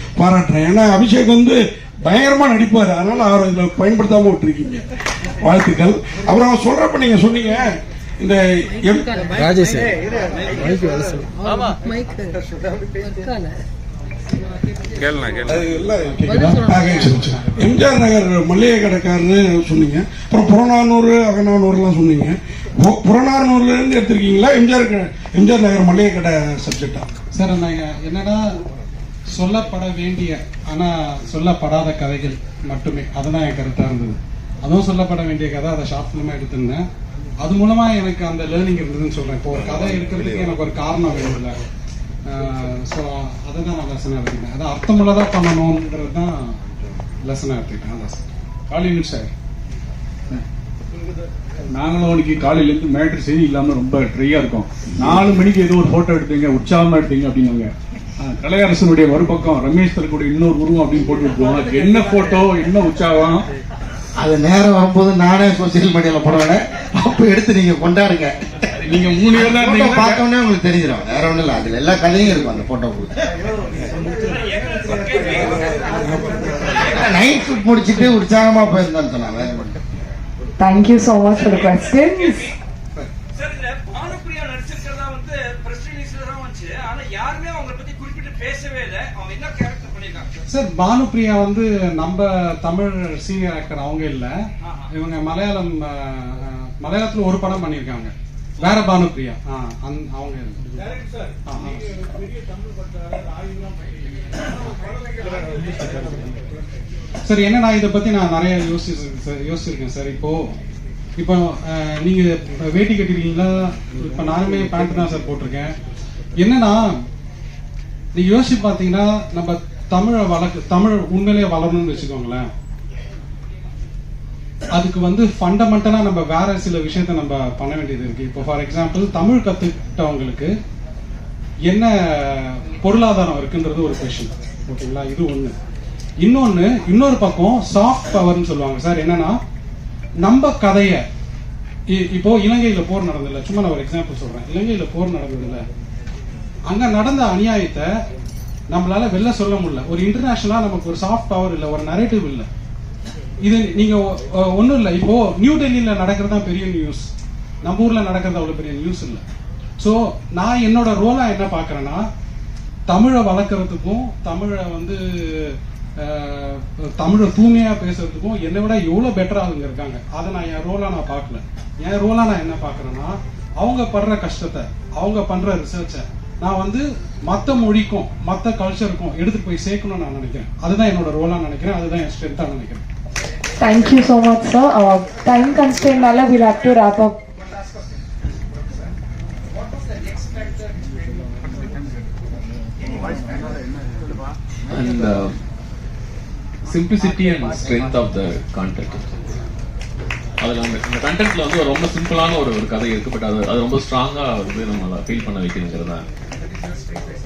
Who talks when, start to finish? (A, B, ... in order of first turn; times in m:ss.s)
0:00.2-0:04.8 A
0:05.4-0:09.1 A
0:16.3-0:27.0 A
0:27.3-0:28.5 B
0:29.3-0:36.8 B
0:37.4-0:41.6 B
0:42.3-0:46.5 B
0:47.2-0:48.2 B
0:48.7-0:49.3 C
0:51.7-1:03.4 C
1:04.2-1:08.3 D
1:08.8-1:10.2 C
1:09.3-1:13.1 D
1:14.5-1:15.7 E
1:16.0-1:16.4 A
1:16.8-1:19.7 D
1:20.6-1:22.5 F
1:23.4-1:30.3 E
1:30.5-1:34.3 B
1:34.9-1:40.6 B
1:41.4-1:41.8 B
1:47.2-1:50.5 B
1:51.2-1:55.7 B
1:56.4-1:56.9 B
1:58.1-2:02.5 B
2:04.7-2:10.5 B
2:11.7-2:15.5 B
2:16.2-2:19.4 B
2:20.2-2:21.0 B
2:21.9-2:25.6 B
2:26.6-2:27.9 B
2:28.7-2:32.5 B
2:33.4-2:37.1 B
2:37.6-2:39.2 B
2:39.8-2:42.0 B
2:42.9-3:02.8 B
3:03.6-3:07.2 F
3:14.7-3:15.3 G
3:16.7-3:19.1 G
3:20.4-3:26.1 G